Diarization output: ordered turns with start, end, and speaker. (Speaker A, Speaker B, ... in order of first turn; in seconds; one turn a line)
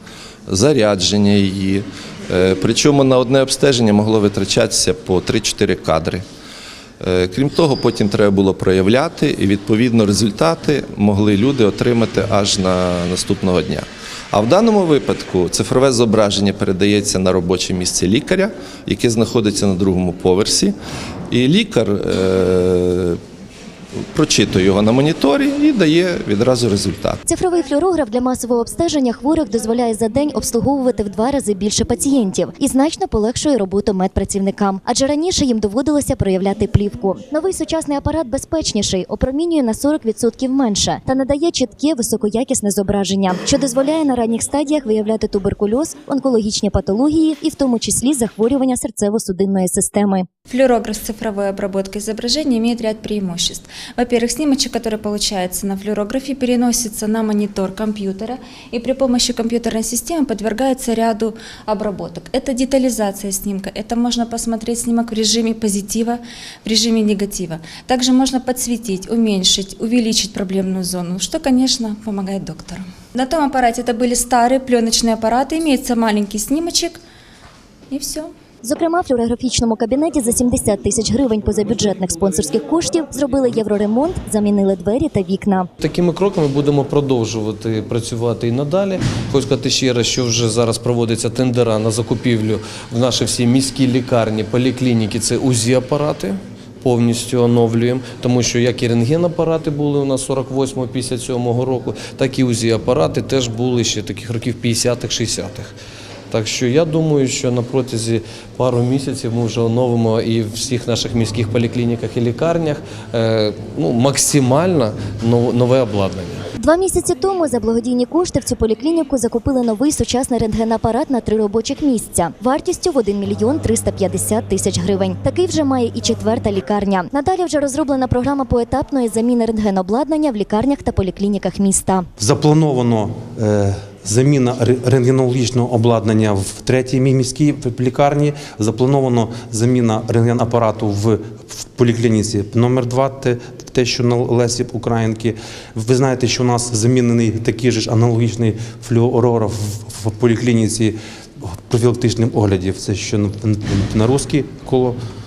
Speaker A: 0.5-6.2
Speaker A: 7.0-20.7
Speaker A: 21.3-23.2
Speaker A: 24.1-27.2
Speaker B: 27.2-50.3
Speaker C: 50.5-77.0
Speaker C: 77.9-78.3
Speaker B: 78.6-85.7
Speaker D: 85.8-105.7
Speaker D: 106.3-116.4
Speaker B: 116.6-132.1
Speaker E: 132.2-155.0